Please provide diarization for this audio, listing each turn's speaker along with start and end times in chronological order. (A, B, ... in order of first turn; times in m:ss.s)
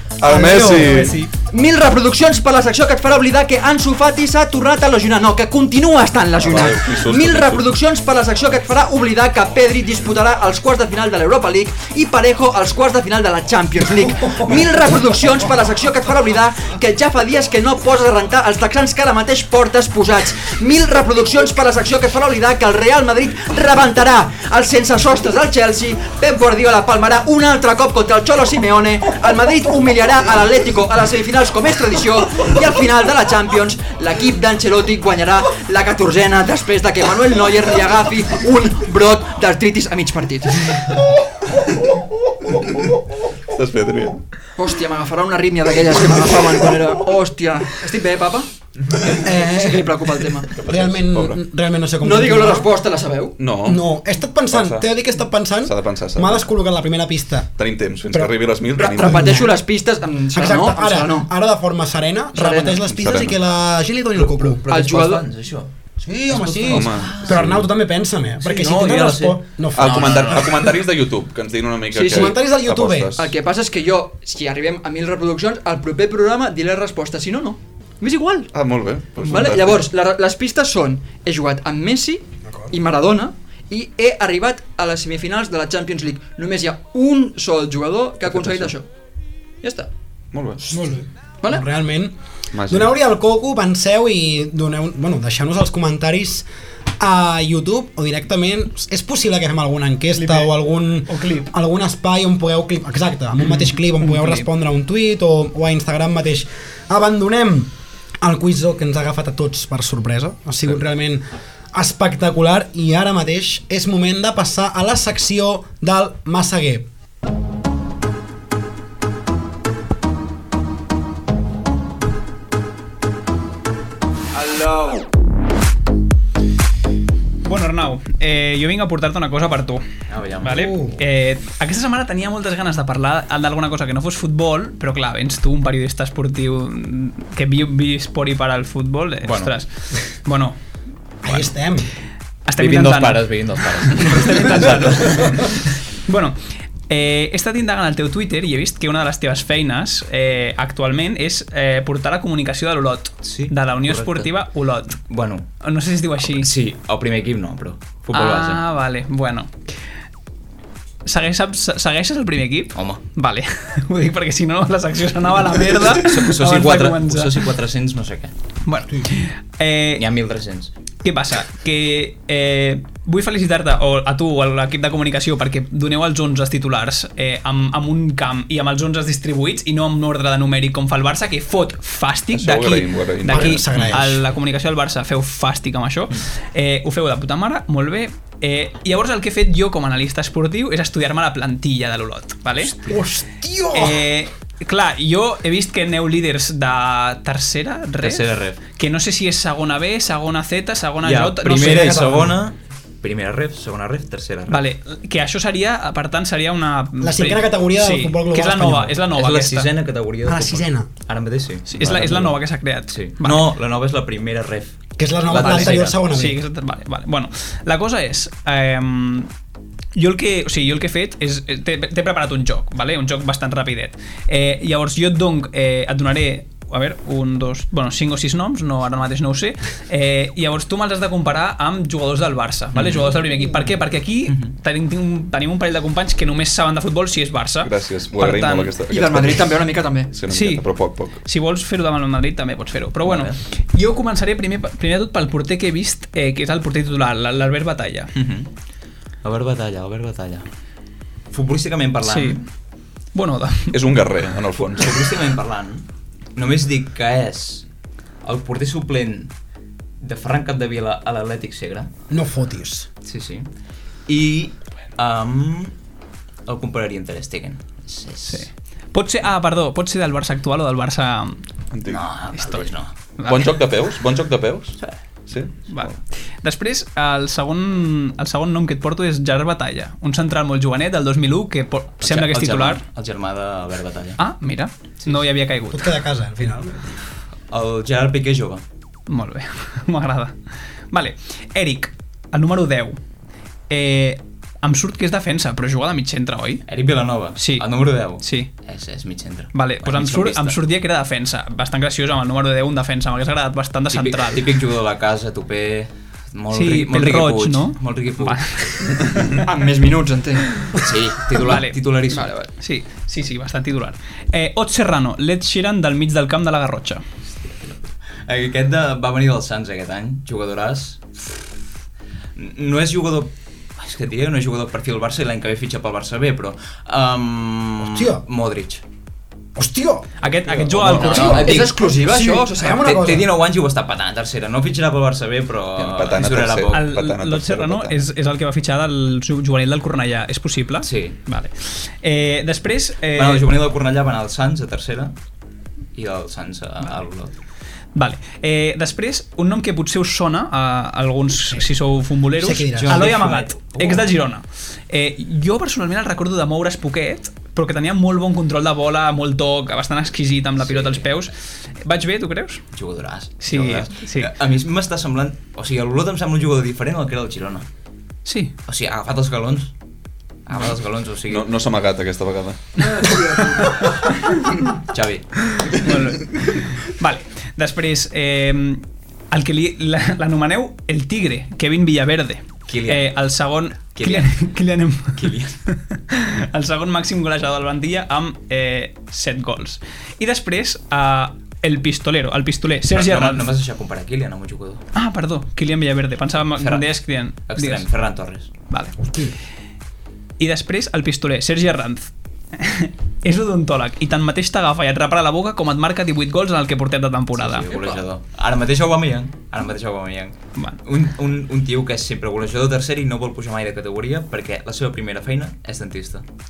0:00.2-0:01.2 A
0:00.2-0:01.2 B
0:01.4-0:40.9 C
0:06.4-0:07.7 A
0:43.5-0:44.2 A
0:44.6-0:48.5 C
0:49.1-0:50.0 B
0:49.4-0:50.5 C
0:50.5-0:51.4 A
0:50.7-0:52.7 B
0:52.0-0:53.4 C
0:53.4-0:53.8 A
0:53.6-0:57.5 B
0:54.5-0:54.9 A
0:55.6-0:56.5 A
0:57.6-0:59.5 A
0:58.1-0:59.6 B
0:58.8-1:01.3 C
1:00.3-1:04.6 B
1:02.4-1:02.8 C
1:02.7-1:03.4 A
1:04.2-1:05.7 D
1:04.7-1:05.2 C
1:06.0-1:10.5 B
1:06.3-1:07.6 D
1:06.6-1:07.6 A
1:08.4-1:10.8 D
1:09.8-1:13.3 A
1:11.9-1:12.3 C
1:12.0-1:13.1 B
1:13.2-1:18.5 C
1:18.5-1:19.9 A
1:19.2-1:28.9 C
1:22.5-1:22.7 B
1:28.3-1:28.7 A
1:29.6-1:29.9 C
1:30.3-1:30.8 A
1:30.7-1:32.2 B
1:32.5-1:32.9 A
1:32.7-1:36.5 B
1:37.0-1:56.9 B
1:40.2-1:40.5 E
1:41.1-1:41.5 E
1:43.5-1:44.5 E
2:07.4-2:09.8 E
2:10.1-2:10.7 D
2:10.4-2:20.6 E
2:10.4-2:11.0 B
2:19.2-2:19.5 D
2:21.2-2:21.9 B
2:22.5-2:26.4 E
2:22.6-2:25.4 D
2:26.9-2:35.0 E
2:33.2-2:34.3 D
2:35.1-2:35.5 D
2:35.6-2:36.5 E
2:36.2-2:38.6 D
2:38.1-2:39.5 E
2:41.0-2:47.5 E
2:42.8-2:43.0 D
2:45.9-2:48.3 D
2:48.6-2:50.1 E
2:50.0-2:50.7 D
2:51.0-3:12.7 E
3:02.3-3:04.0 A
3:03.3-3:04.2 B
3:12.9-3:14.0 B
3:13.7-3:22.2 E
3:18.0-3:18.6 D
3:21.0-3:24.6 D
3:21.6-3:22.4 B
3:24.5-3:29.7 E
3:27.0-3:29.0 B
3:29.1-3:32.4 D
3:30.2-3:30.9 B
3:31.7-3:33.5 E
3:32.9-3:36.0 D
3:35.0-3:36.4 B
3:35.4-3:39.3 E
3:40.0-3:58.7 E
3:52.8-3:53.2 D
3:54.3-3:54.6 D
3:57.6-4:01.2 A
3:58.9-4:00.1 C
4:00.3-4:00.7 E
4:01.2-4:08.1 E
4:03.0-4:03.4 D
4:08.2-4:08.5 D
4:09.2-4:10.5 D
4:11.3-4:12.4 D
4:12.0-4:12.4 E
4:13.1-4:13.8 E
4:13.7-4:15.0 A
4:14.8-4:17.7 D
4:18.2-4:19.3 D
4:20.0-4:21.9 D
4:22.1-4:22.9 B
4:23.0-4:23.5 D
4:24.1-4:25.7 D
4:26.5-4:28.5 D
4:28.3-4:31.4 E
4:31.7-4:32.0 A
4:31.9-4:32.9 D
4:32.4-4:33.6 E
4:33.3-4:34.8 A
4:35.3-4:35.9 A
4:35.7-4:42.8 E
4:42.0-4:44.2 D
4:44.2-4:45.9 E
4:45.7-4:46.9 B
4:47.5-4:48.6 D
4:49.1-4:50.4 E
4:50.9-4:53.0 E
4:53.7-4:56.6 E
4:56.7-5:00.6 D
4:57.4-4:58.5 E
4:59.5-5:04.4 E
5:03.9-5:09.1 D
5:06.5-5:09.4 E
5:09.4-5:10.5 C
5:10.8-5:12.3 D
5:11.4-5:11.8 E
5:12.1-5:12.5 C
5:12.6-5:17.0 E
5:17.3-5:21.0 D
5:22.4-5:28.8 D
5:27.8-5:28.2 B
5:29.6-5:33.3 B
5:30.2-5:31.7 E
5:30.6-5:31.8 D
5:30.7-5:31.4 A
5:31.4-5:33.0 C
5:32.6-5:36.9 D
5:35.8-5:38.0 A
5:36.7-5:43.5 E
5:40.8-5:41.2 D
5:43.2-5:45.1 D
5:46.0-5:47.3 D
5:48.0-6:02.6 E
5:52.3-5:53.3 B
5:52.8-5:54.1 D
6:00.6-6:01.1 D
6:02.7-6:07.7 D
6:03.4-6:04.3 E
6:08.3-6:08.5 E
6:08.7-6:09.7 D
6:10.5-6:11.5 D
6:11.3-6:12.6 A
6:14.9-6:15.4 D
6:15.7-6:33.5 E
6:22.7-6:23.1 D
6:23.9-6:24.4 D
6:25.2-6:25.6 D
6:32.9-6:34.8 D
6:35.0-6:37.9 E
6:36.6-6:38.5 D
6:38.7-6:39.0 E
6:39.0-6:39.3 B
6:40.4-6:47.7 E
6:47.4-6:56.2 D